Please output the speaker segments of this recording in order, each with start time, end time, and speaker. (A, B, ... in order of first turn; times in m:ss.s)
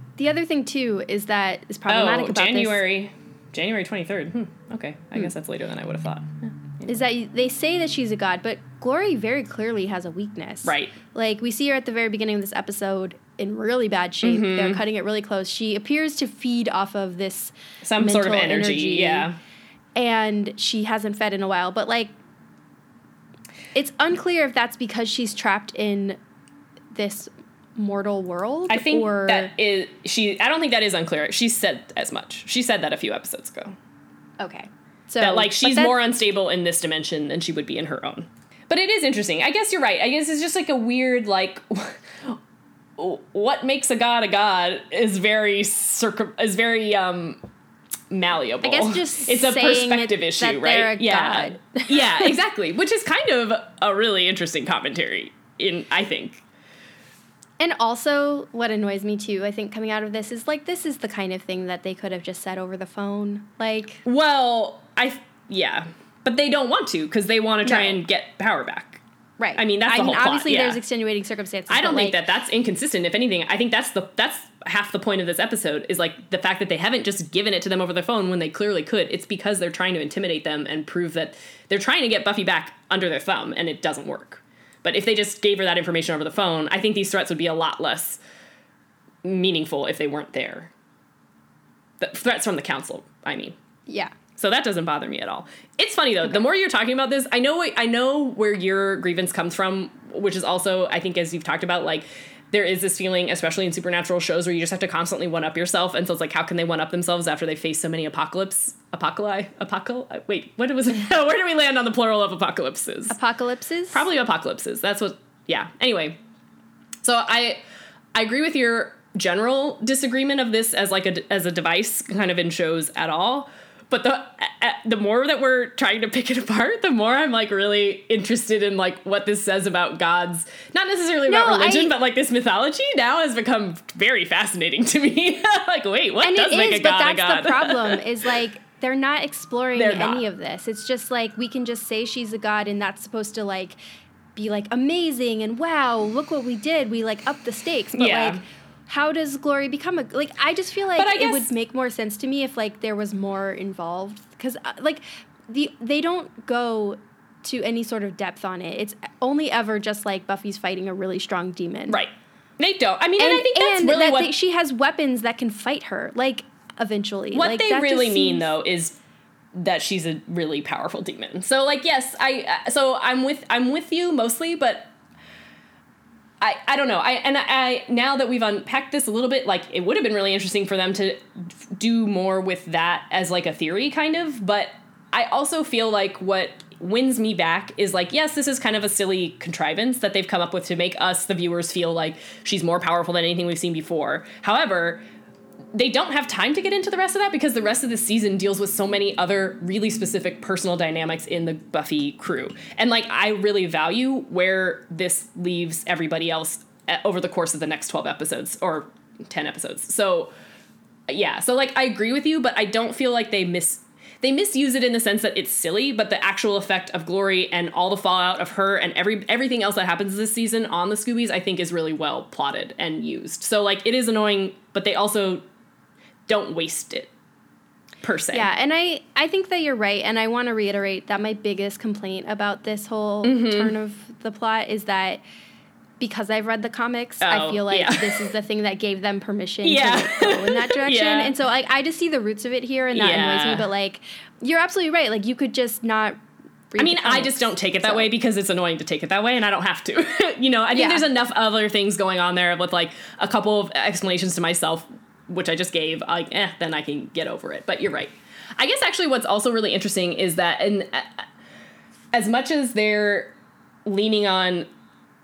0:00.2-0:02.8 A
0:01.9-0:06.9 B
0:06.9-0:19.3 A
0:10.6-0:10.9 B
0:14.2-0:14.8 B
0:17.8-0:19.4 B
0:20.0-0:22.1 A
0:23.7-0:26.2 A
0:26.9-0:29.5 A
0:28.7-0:33.8 B
0:34.4-0:36.0 A
0:35.2-0:42.4 B
0:43.0-0:47.4 B
0:48.1-0:56.4 B
0:48.6-0:52.3 A
0:57.6-1:04.0 A
1:04.0-1:09.0 B
1:07.6-1:08.0 A
1:09.4-1:12.2 A
1:09.6-1:10.8 B
1:11.7-1:28.2 B
1:29.2-1:30.7 B
1:32.0-1:33.6 B
1:33.9-1:34.1 A
1:34.4-1:53.2 B
1:53.1-1:54.0 A
1:53.9-1:56.2 B
1:57.0-1:57.6 B
1:58.1-2:18.0 B
2:11.3-2:11.9 A
2:16.2-2:23.8 A
2:19.7-2:20.2 B
2:24.4-2:42.0 A
2:27.9-2:28.4 B
2:31.0-2:31.5 B
2:41.9-2:44.3 B
2:43.2-2:48.4 A
2:47.3-2:49.0 B
2:49.5-2:54.9 B
2:56.4-3:15.0 B
3:15.7-3:30.3 B
3:31.1-3:45.4 B
3:46.3-3:47.1 B
3:48.0-3:48.5 B
3:48.3-3:55.2 A
3:53.2-3:53.7 B
3:56.0-4:06.2 A
3:57.2-3:58.2 B
3:59.6-4:01.3 B
4:02.9-4:03.7 B
4:06.7-4:08.1 A
4:06.8-4:21.2 B
4:10.7-4:11.0 A
4:22.1-4:23.3 B
4:23.8-4:24.7 B